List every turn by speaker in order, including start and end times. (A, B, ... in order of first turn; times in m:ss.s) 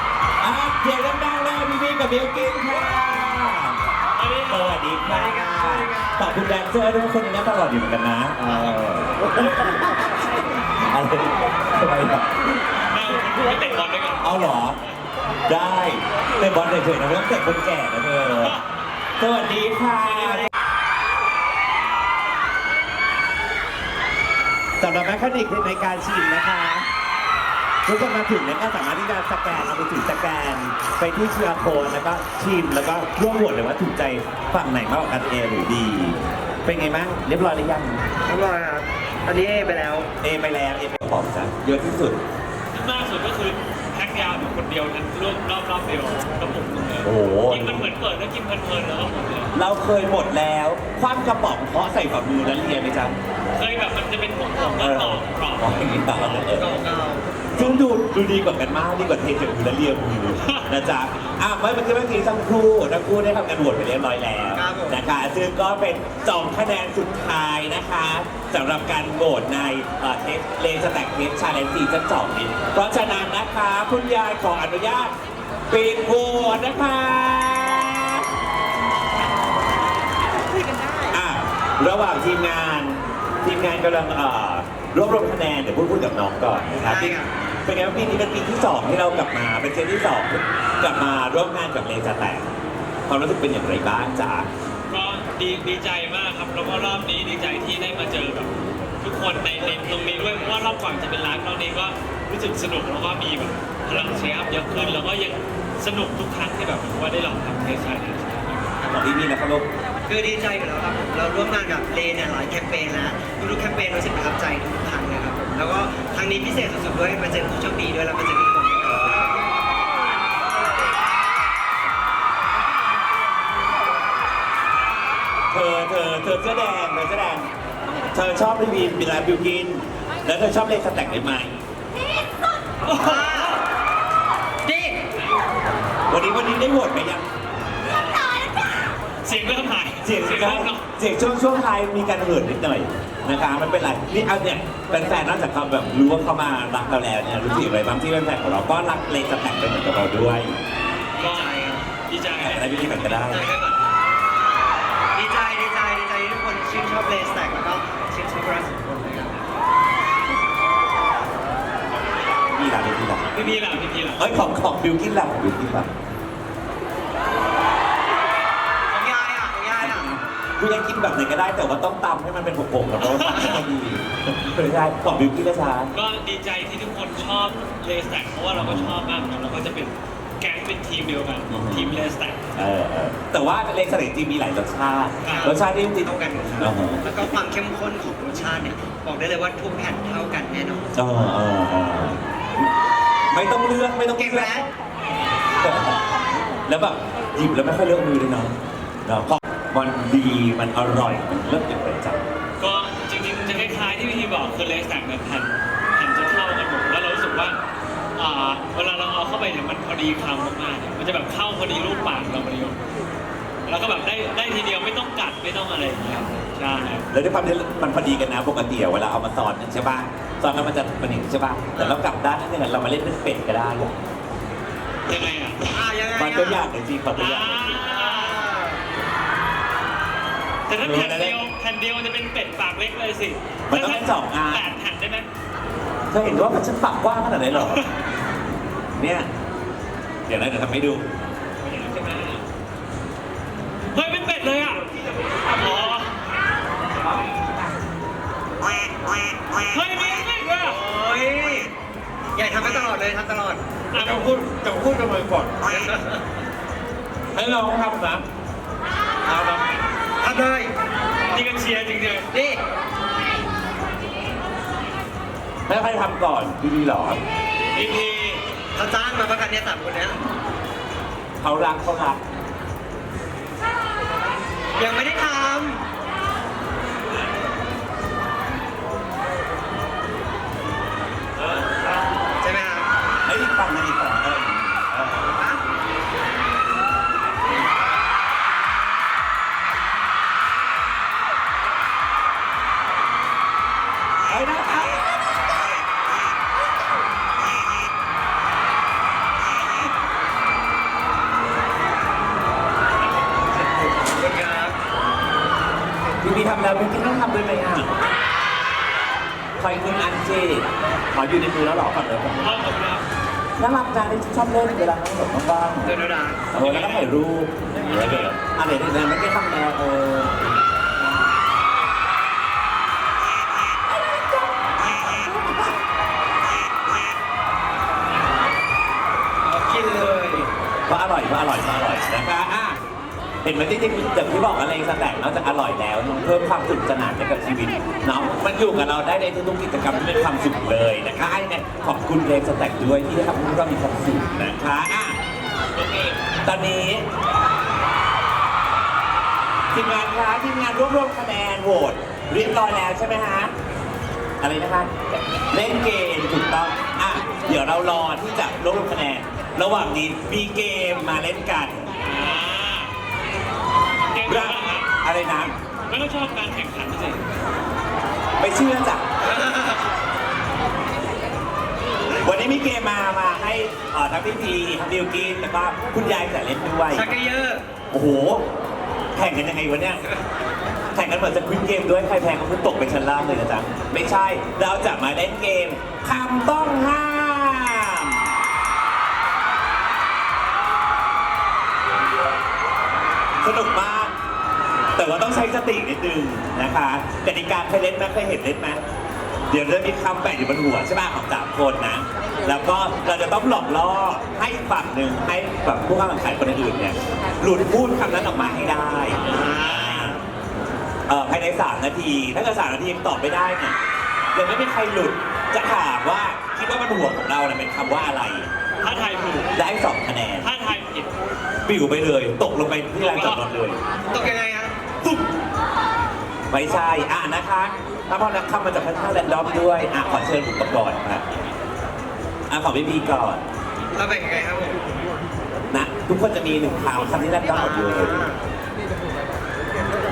0:00.4-0:03.8 A
0:04.1-0:04.9 B
0:04.5-0:12.3 A
0:05.1-0:06.5 C
0:12.9-0:14.7 B
0:14.2-0:14.8 A
0:15.5-0:18.6 A
0:18.3-0:18.6 B
0:19.2-0:20.5 A
0:24.8-0:26.9 A
0:27.8-0:38.0 A
0:38.3-0:40.1 C
0:40.2-0:42.2 A
0:42.7-0:49.5 B
0:47.0-0:47.9 A
0:49.6-0:53.2 A
0:53.6-0:55.8 B
0:54.8-0:56.7 A
0:56.5-0:57.6 C
0:57.6-1:15.2 A
1:04.5-1:05.0 C
1:15.7-1:18.3 A
1:21.1-1:32.5 A
1:26.8-1:27.3 C
1:33.1-1:34.5 A
1:34.9-1:38.5 B
1:39.0-1:48.7 B
1:48.8-1:49.7 A
1:50.1-1:59.3 C
2:05.5-2:07.5 A
2:08.1-2:11.5 A
2:12.8-2:13.6 B
2:13.0-2:13.6 C
2:14.6-2:15.0 C
2:16.1-2:17.3 A
2:19.2-2:20.9 B
2:20.0-2:30.6 A
2:31.2-2:33.2 B
2:31.2-2:31.9 C
2:32.4-2:33.5 A
2:33.3-2:33.8 C
2:35.1-2:39.4 C
2:42.0-2:43.6 A
2:43.3-2:44.3 B
2:44.1-2:45.9 A
2:48.9-2:50.1 C
2:49.8-2:55.9 A
2:53.0-2:53.7 B
2:55.9-3:02.6 B
2:58.5-2:58.9 A
3:01.5-3:02.0 A
3:02.6-3:07.0 A
3:05.2-3:05.5 B
3:05.3-3:10.9 C
3:11.0-3:12.7 A
3:13.3-3:14.6 A
3:14.2-3:14.7 C
3:15.6-3:16.0 A
3:16.7-3:18.5 A
3:19.1-3:22.2 A
3:22.6-3:27.6 B
3:28.2-3:32.8 B
3:33.7-3:37.1 B
3:37.1-3:44.0 A
3:41.8-3:42.0 C
3:45.1-3:45.7 B
3:45.7-3:46.7 C
3:46.2-3:47.8 A
3:47.1-3:48.5 B
3:47.7-3:48.8 C
3:50.7-3:55.3 B
3:50.8-3:51.4 A
3:53.7-3:54.7 A
3:56.1-3:57.8 A
3:57.5-3:57.9 B
3:59.0-3:59.3 A
4:00.3-4:01.0 A
4:01.6-4:02.4 A
4:03.9-4:04.9 B
4:04.9-4:05.6 A
4:05.5-4:06.1 B
4:09.6-4:10.8 B
4:10.6-4:11.7 C
4:12.3-4:13.6 C
4:13.9-4:14.6 B
4:14.0-4:15.6 A
4:15.6-4:16.2 C
4:17.3-4:18.2 A
4:19.3-4:19.6 A
4:20.2-4:20.7 C
4:21.3-4:22.3 B
4:22.3-4:22.6 C
4:25.7-4:27.2 A
4:27.7-4:28.4 B
4:28.8-4:30.2 C
4:31.4-4:32.2 A
4:34.8-4:35.9 C
4:42.4-4:42.9 C
4:43.2-4:45.4 A
4:45.3-4:45.6 C
4:54.3-4:55.5 A
5:04.1-5:04.8 C
5:06.2-5:07.9 A
5:09.6-5:12.6 A
5:12.4-5:13.0 B
5:13.6-5:16.0 A
5:15.8-5:16.4 C
5:16.5-5:20.5 A
5:16.5-5:17.1 B
5:17.8-5:18.3 B
5:23.9-5:25.8 A
5:29.4-5:30.5 C
5:30.9-5:32.8 A
5:33.4-5:45.2 A
5:45.7-5:47.1 A
5:49.7-5:53.5 A
5:54.4-5:54.9 A
5:55.5-6:01.9 A
6:02.0-6:03.0 B
6:04.1-6:04.9 B
6:04.3-6:05.5 A
6:05.9-6:07.2 B
6:08.4-6:09.0 A
6:09.2-6:09.8 C
6:12.2-6:17.1 A
6:16.9-6:17.6 C
6:17.9-6:18.4 A
6:19.2-6:20.0 A
6:20.9-6:28.3 A
6:33.4-6:34.1 A
6:35.0-6:38.8 A
6:39.5-6:50.2 A
6:49.2-6:50.2 B
6:49.2-6:50.1 C
6:51.1-6:53.8 A
6:54.3-6:58.5 A
6:58.8-6:59.5 B
6:59.6-7:00.5 A
7:00.4-7:01.1 B
7:01.6-7:03.8 A
7:03.0-7:03.4 B
7:04.1-7:04.8 C
7:06.5-7:11.2 A
7:12.5-7:13.4 A
7:13.9-7:14.8 C
7:15.7-7:18.3 A
7:17.5-7:18.4 C